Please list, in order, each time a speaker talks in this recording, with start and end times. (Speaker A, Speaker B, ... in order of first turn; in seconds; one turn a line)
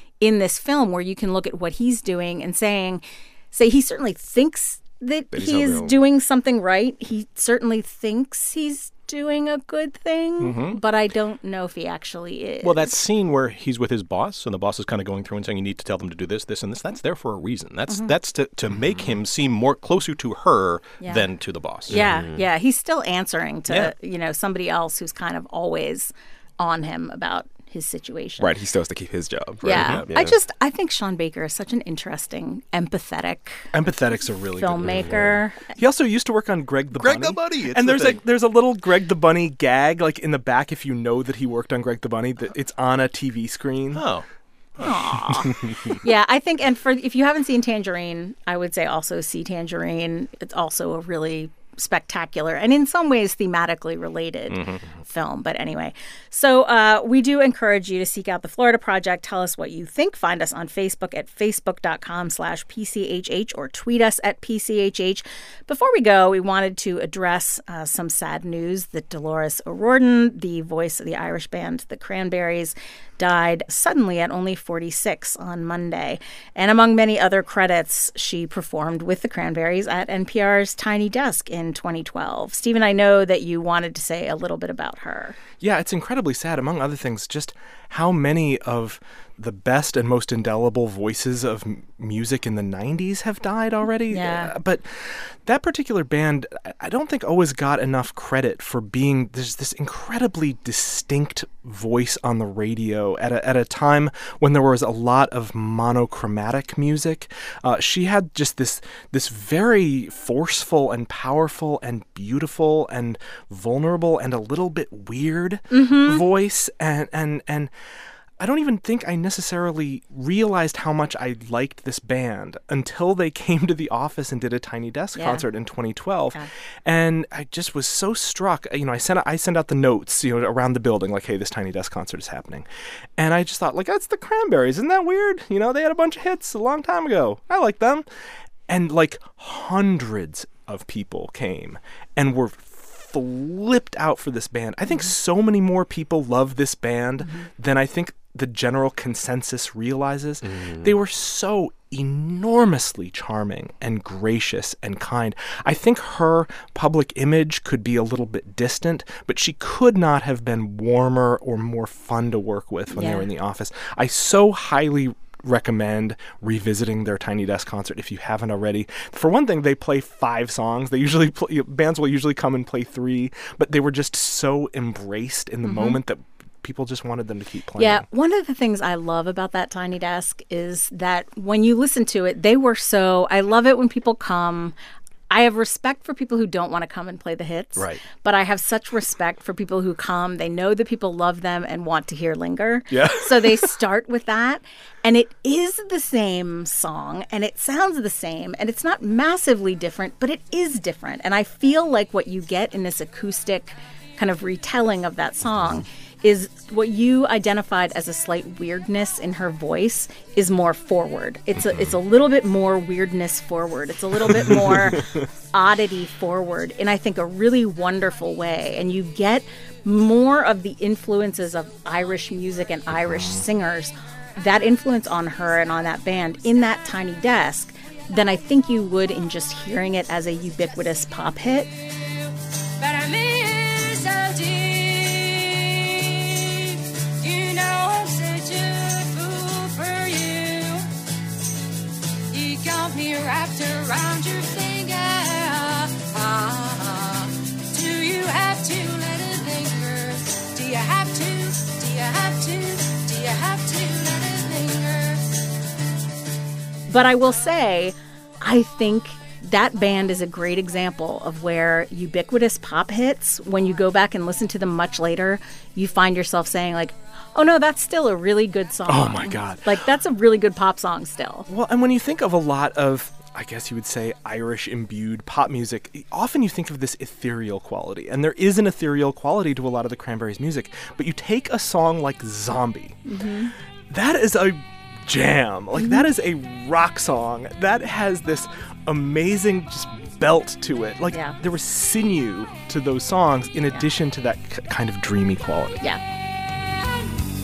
Speaker A: 0.2-12.9
Speaker B: 5.3-6.0
Speaker C: 10.4-10.8
Speaker C: 12.6-22.0
Speaker A: 21.9-28.5
Speaker B: 21.9-22.4
Speaker B: 28.4-30.4
Speaker A: 29.6-33.7
Speaker C: 29.7-30.0
Speaker D: 33.7-44.1
Speaker A: 34.5-35.7
Speaker C: 37.0-38.2
Speaker C: 43.9-44.2
Speaker C: 44.8-46.0
Speaker A: 44.8-85.4
Speaker C: 54.5-54.8
Speaker D: 85.6-117.7
Speaker A: 94.1-94.5
Speaker A: 115.7-116.2
Speaker D: 118.4-132.7
Speaker A: 125.2-125.4
Speaker D: 133.2-138.1
Speaker D: 138.7-178.1
Speaker A: 162.9-163.3
Speaker A: 175.6-176.0
Speaker A: 177.8-184.7
Speaker A: 185.3-231.7
Speaker D: 214.2-215.1
Speaker D: 222.9-223.4
Speaker E: 231.9-240.8
Speaker E: 242.3-255.2
Speaker A: 256.9-271.5
Speaker D: 268.9-269.8
Speaker D: 271.5-283.0
Speaker A: 283.1-283.5
Speaker D: 283.9-295.8
Speaker A: 285.8-286.1
Speaker A: 291.1-291.4
Speaker E: 296.3-297.1